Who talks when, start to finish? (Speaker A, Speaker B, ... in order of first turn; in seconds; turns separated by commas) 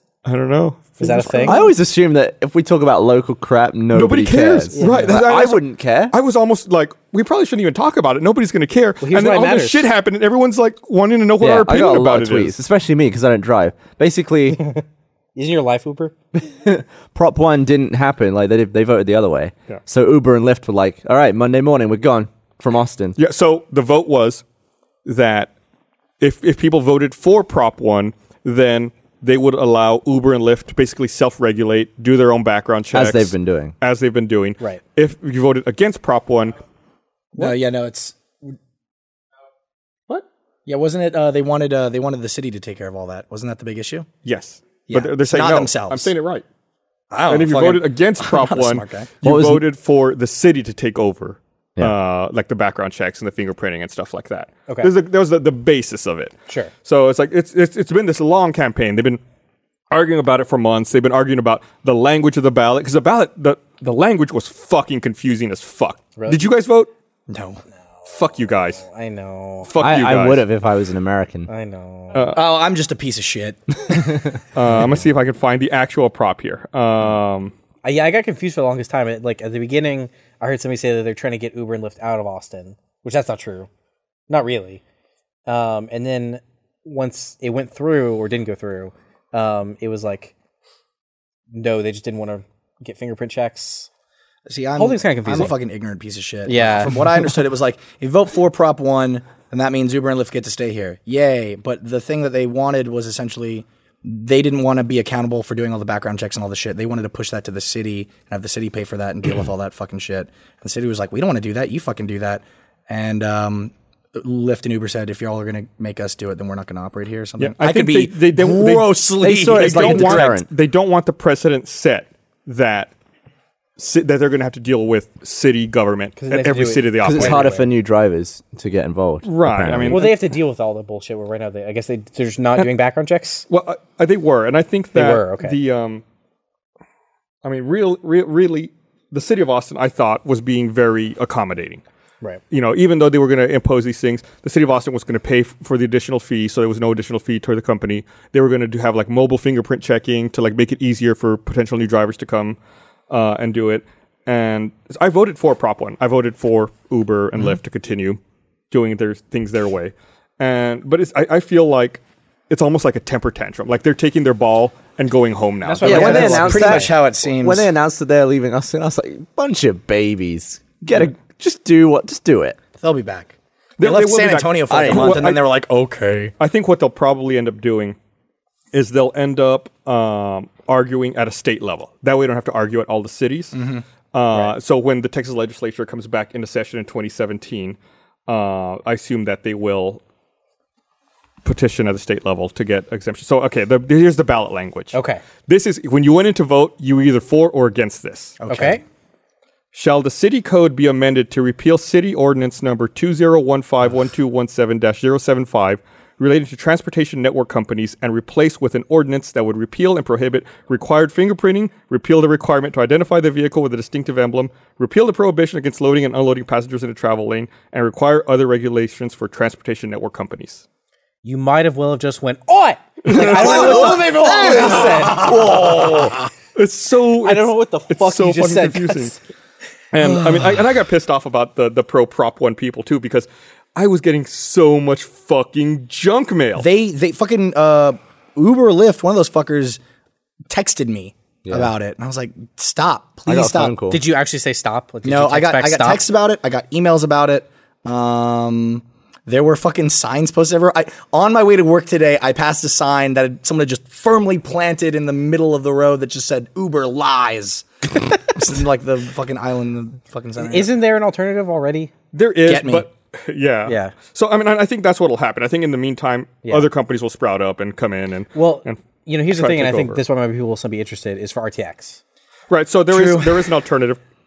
Speaker A: 0.2-1.6, Speaker B: 1.0-1.6, Speaker C: 1.4-6.1, Speaker A: 3.9-12.6, Speaker B: 4.7-5.1, Speaker B: 9.0-9.9, Speaker C: 11.4-14.7, Speaker B: 15.3-16.1, Speaker C: 16.3-23.2, Speaker A: 23.2-24.4, Speaker A: 25.0-25.5, Speaker A: 26.2-36.6, Speaker C: 32.9-33.7, Speaker D: 37.3-38.5, Speaker D: 40.6-44.1, Speaker A: 44.2-46.4, Speaker D: 44.9-46.1, Speaker D: 47.1-49.1, Speaker A: 47.3-59.2, Speaker C: 49.2-49.6, Speaker B: 54.7-54.9, Speaker A: 59.9-66.9, Speaker B: 66.2-66.5, Speaker D: 67.3-67.6, Speaker B: 68.0-69.7, Speaker A: 68.0-68.8, Speaker A: 69.6-70.4, Speaker C: 69.8-71.5, Speaker B: 71.5-72.3, Speaker A: 72.1-72.4, Speaker D: 72.3-74.3, Speaker A: 74.5-77.5, Speaker B: 77.8-83.7, Speaker B: 84.3-84.8, Speaker B: 85.5-90.3, Speaker B: 91.5-93.9, Speaker D: 94.5-120.4, Speaker B: 94.8-95.5, Speaker B: 96.5-97.0, Speaker A: 117.4-122.9, Speaker C: 119.2-120.5, Speaker A: 123.8-127.5, Speaker B: 126.2-127.7, Speaker C: 127.0-130.2, Speaker A: 129.2-130.2, Speaker B: 129.9-133.4, Speaker A: 133.5-136.0, Speaker B: 134.9-135.6, Speaker A: 137.4-141.8, Speaker A: 142.5-152.6, Speaker A: 153.1-158.2, Speaker A: 158.7-166.5, Speaker B: 165.6-166.9, Speaker D: 165.8-167.7, Speaker C: 165.8-172.6, Speaker D: 172.8-176.3, Speaker A: 173.8-175.4, Speaker C: 174.7-175.4, Speaker A: 176.4-177.9, Speaker A: 178.7-183.5, Speaker D: 183.5-183.8, Speaker A: 184.1-190.0, Speaker A: 191.4-198.4, Speaker B: 194.9-195.2, Speaker D: 198.4-198.8, Speaker B: 198.5-198.8, Speaker A: 199.7-220.6, Speaker B: 221.2-226.1, Speaker A: 223.0-224.9, Speaker D: 223.2-226.1, Speaker C: 224.5-226.2, Speaker A: 226.5-229.1, Speaker B: 227.2-229.2, Speaker A: 229.9-236.7, Speaker D: 236.6-239.8, Speaker D: 240.5-243.7, Speaker C: 241.4-241.7, Speaker C: 243.3-244.0, Speaker B: 243.9-246.0, Speaker D: 245.1-257.6, Speaker D: 258.1-260.7, Speaker B: 260.4-261.9, Speaker A: 262.1-270.0, Speaker D: 262.4-262.9, Speaker B: 263.7-263.9, Speaker B: 266.4-266.7, Speaker B: 268.3-272.0, Speaker A: 272.5-274.0, Speaker D: 272.9-273.5